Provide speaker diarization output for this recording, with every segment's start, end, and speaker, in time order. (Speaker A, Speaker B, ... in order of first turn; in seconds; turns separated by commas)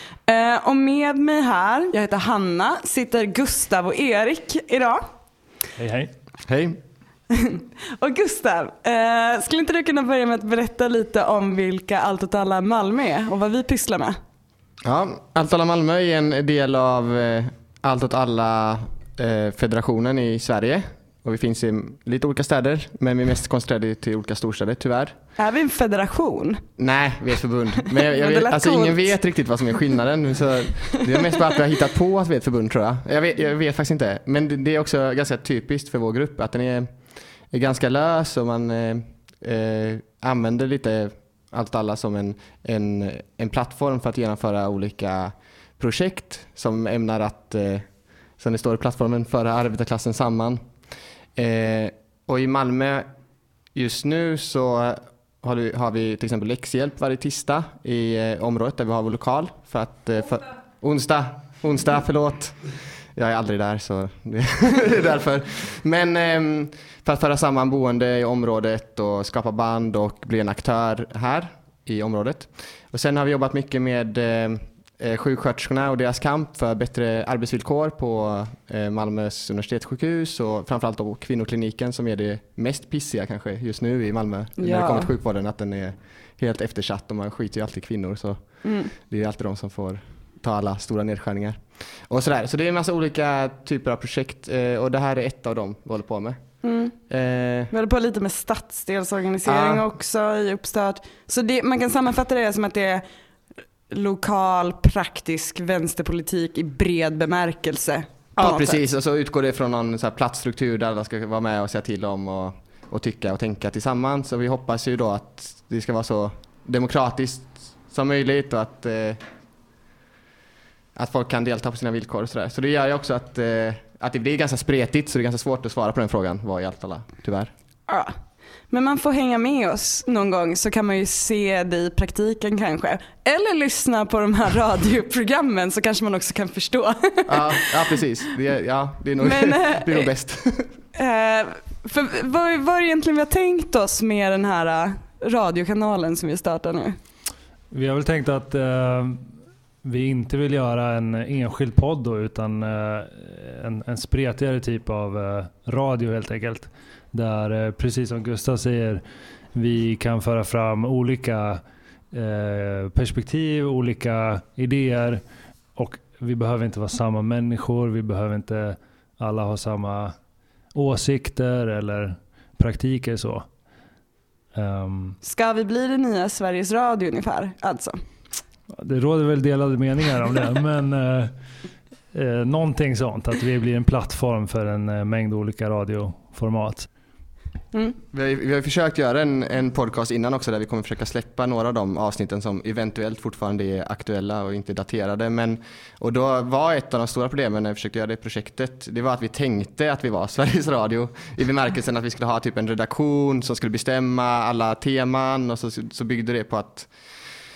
Speaker A: 0.3-5.0, Speaker B: 5.8-6.1, Speaker C: 6.5-6.8, Speaker A: 7.3-14.2, Speaker C: 14.8-25.1, Speaker A: 25.4-26.6, Speaker C: 26.8-36.9, Speaker A: 27.9-29.1, Speaker C: 37.5-47.8, Speaker C: 48.4-50.6, Speaker C: 51.4-53.0, Speaker C: 53.7-62.6, Speaker C: 63.1-88.4, Speaker A: 84.6-85.1, Speaker A: 88.6-88.9, Speaker C: 89.0-96.4, Speaker A: 96.6-96.9, Speaker C: 97.1-97.7, Speaker A: 97.7-103.0, Speaker C: 99.4-99.8, Speaker A: 103.9-108.8, Speaker C: 108.4-119.2, Speaker C: 120.9-127.5, Speaker A: 127.9-128.1, Speaker A: 128.7-137.7, Speaker C: 137.3-140.7, Speaker A: 139.2-140.1, Speaker A: 140.9-146.9, Speaker B: 147.7-149.2, Speaker B: 149.8-159.0, Speaker B: 159.5-165.2, Speaker B: 165.7-170.1, Speaker B: 170.7-173.5, Speaker B: 174.5-175.2, Speaker A: 175.2-178.0, Speaker B: 178.7-181.3, Speaker B: 182.1-186.9, Speaker C: 188.1-206.9